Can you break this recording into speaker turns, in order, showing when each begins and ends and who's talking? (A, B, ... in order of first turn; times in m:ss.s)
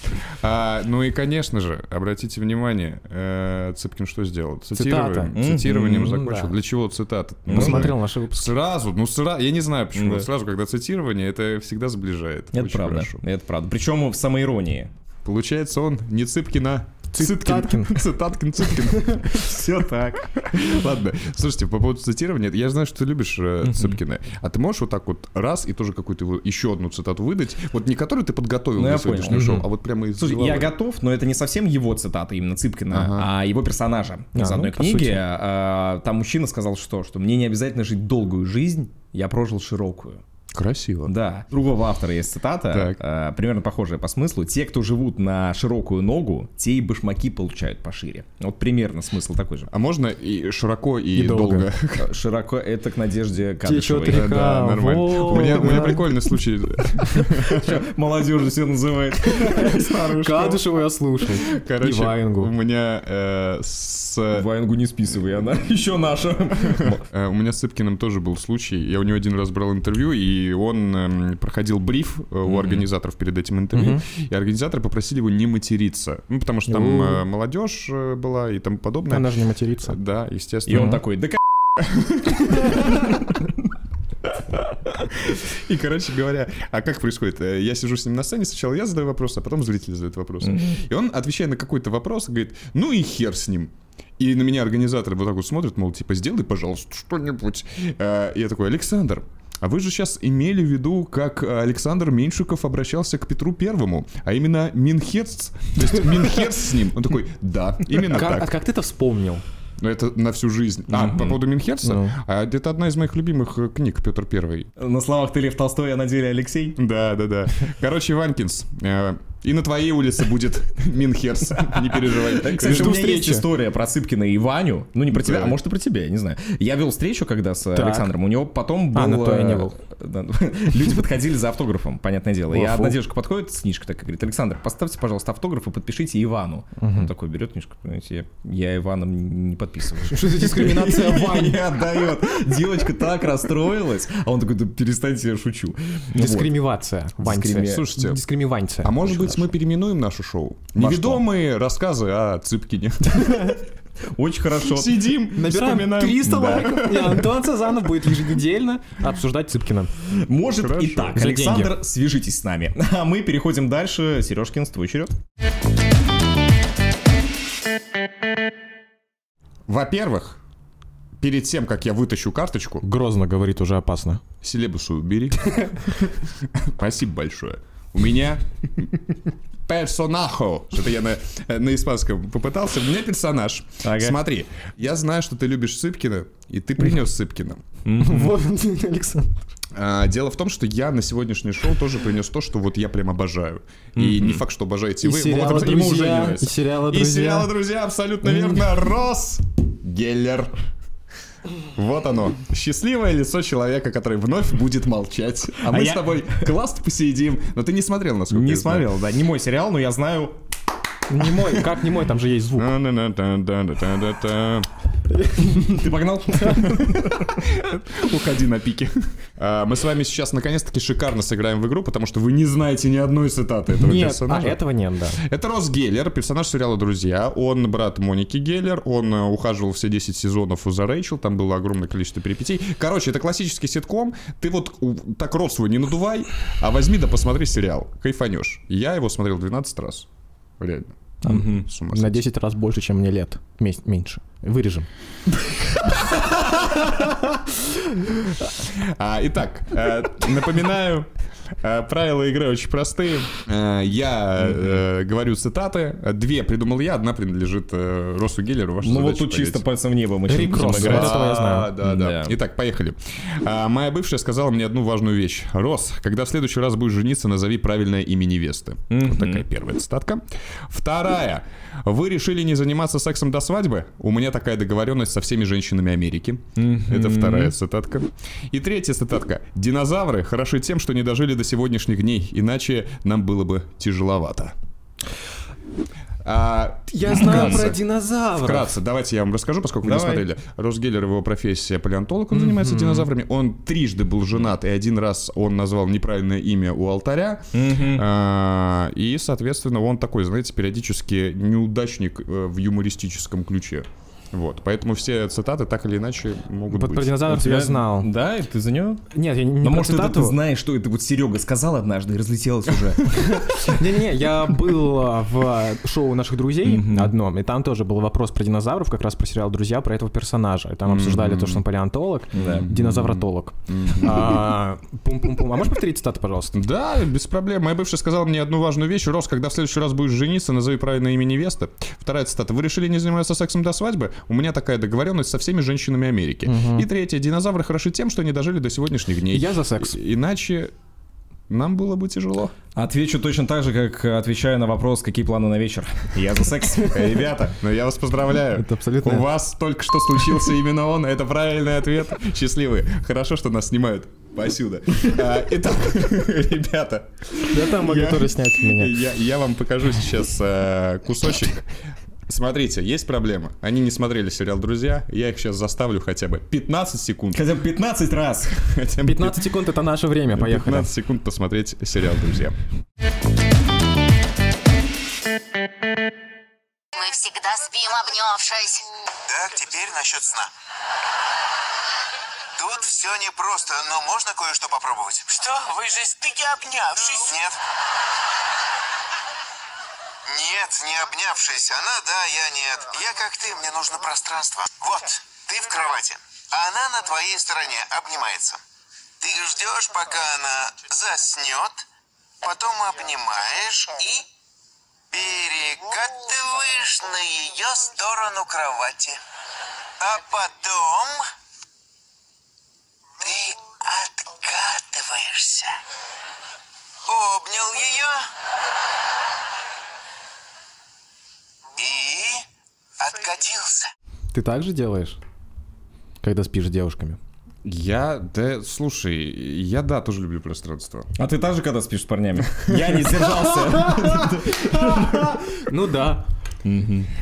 0:00.4-0:13.2 A
0:04.7-0:05.4 B
0:05.4-0:06.2 C
0:05.9-0:06.5 B
0:07.5-0:07.9 C
0:07.5-0:08.5 B
0:09.9-0:10.3 C
0:12.5-0:14.9 C
0:15.2-0:19.6 A
0:17.1-0:18.0 B
0:19.3-0:20.7 C
0:20.4-0:30.7 A
0:23.6-0:24.0 C
0:28.8-0:29.6 C
0:29.3-0:29.6 B
0:30.2-0:40.2 C
0:32.9-0:33.3 A
0:34.3-0:35.2 B
0:40.5-0:41.1 A
0:41.0-0:49.7 C
0:42.7-0:43.0 A
0:49.7-0:52.1 A
0:51.1-0:51.7 B
0:52.0-0:54.5 C
0:53.6-0:56.0 B
0:54.1-0:57.8 A
0:55.2-0:55.9 C
0:57.2-1:00.5 C
0:59.2-1:02.5 B
0:59.5-1:00.6 A
1:01.5-1:04.5 A
1:04.3-1:07.0 C
1:06.7-1:19.3 A
1:12.4-1:12.9 C
1:13.7-1:14.0 B
1:16.7-1:17.2 B
1:19.1-1:20.0 B
1:19.8-1:21.0 A
1:20.7-1:21.4 C
1:20.7-1:21.0 B
1:21.8-1:23.2 A
1:25.0-1:48.5 A
1:30.4-1:30.8 C
1:48.1-1:49.4 B
1:49.8-1:54.7 A
1:50.9-1:51.4 C
1:51.8-1:52.2 B
1:54.8-1:56.8 C
1:56.8-2:03.0 A
2:01.6-2:26.6 C
2:02.6-2:03.5 B
2:05.1-2:05.5 A
2:07.7-2:08.1 B
2:08.9-2:09.8 B
2:12.5-2:13.0 B
2:16.8-2:17.1 B
2:20.1-2:21.8 B
2:26.2-2:29.5 B
2:27.2-2:27.9 C
2:27.4-2:28.2 A
2:28.8-2:33.6 A
2:30.8-2:31.2 C
2:34.1-2:35.1 C
2:34.7-2:37.3 A
2:35.3-2:39.9 B
2:36.3-2:36.7 C
2:40.1-2:45.2 C
2:40.5-2:41.2 A
2:41.1-2:41.8 B
2:49.7-2:50.4 A
2:51.2-2:52.8 A
2:52.8-2:54.2 B
2:54.4-2:58.9 A
2:59.7-3:07.6 A
3:03.8-3:04.2 C
3:07.8-3:08.4 C
3:08.0-3:09.4 B
3:09.8-3:20.5 A
3:14.0-3:14.4 C
3:15.0-3:17.5 B
3:18.2-3:18.6 C
3:21.8-3:28.9 A
3:25.6-3:26.4 C
3:28.3-3:30.4 C
3:31.1-3:32.7 B
3:32.6-3:34.7 A
3:35.1-3:35.8 B
3:35.5-3:37.3 C
3:36.3-3:36.7 B
3:37.4-3:44.6 A
3:43.7-3:45.2 B
3:45.2-4:00.1 A
4:00.6-4:02.2 A
4:01.2-4:04.9 B
4:01.2-4:01.7 C
4:06.0-4:07.1 B
4:08.6-4:11.1 A
4:11.6-4:19.6 A
4:14.4-4:14.8 C
4:18.8-4:21.2 C
4:20.3-4:21.7 B
4:20.5-4:44.5 A
4:21.8-4:22.4 C
4:28.9-4:29.5 C
4:36.6-4:37.5 C
4:46.2-4:47.8 A
4:46.9-4:48.8 B
4:47.1-4:47.7 C
4:48.4-5:07.2 A
4:49.8-4:50.2 C
4:52.3-4:53.1 B
4:57.5-4:58.0 C
5:06.7-5:08.1 B
5:07.2-5:09.0 C
5:09.1-5:10.4 B
5:09.6-5:13.1 C
5:13.1-5:26.6 B
5:16.6-5:17.1 C
5:20.8-5:21.6 A
5:22.3-5:22.7 C
5:22.3-5:24.5 A
5:26.5-5:40.7 A
5:36.4-5:36.9 B
5:39.3-5:40.0 B
5:41.5-5:42.5 A
5:42.8-5:47.3 C
5:46.9-6:01.7 A
5:48.5-5:49.3 B
5:57.5-5:59.0 B
6:02.3-6:07.4 A
6:07.3-6:08.5 C
6:08.6-6:09.4 A
6:09.0-6:10.9 B
6:10.3-6:12.6 A
6:16.9-6:18.8 D
6:19.3-6:20.5 E
6:22.6-6:27.6 E
6:25.6-6:26.8 D
6:30.3-6:38.6 E
6:39.2-6:41.8 E
6:42.4-6:44.3 E
6:45.1-6:49.2 E
6:50.0-6:51.2 E
6:53.2-6:55.8 E
6:57.0-6:58.3 E
7:01.8-7:02.4 E
7:03.0-7:03.9 E
7:04.3-7:05.2 B
7:06.2-7:07.2 B
7:07.6-7:11.1 A
7:11.2-7:15.4 C
7:12.7-7:13.1 A
7:13.2-7:16.2 B
7:16.6-7:17.1 C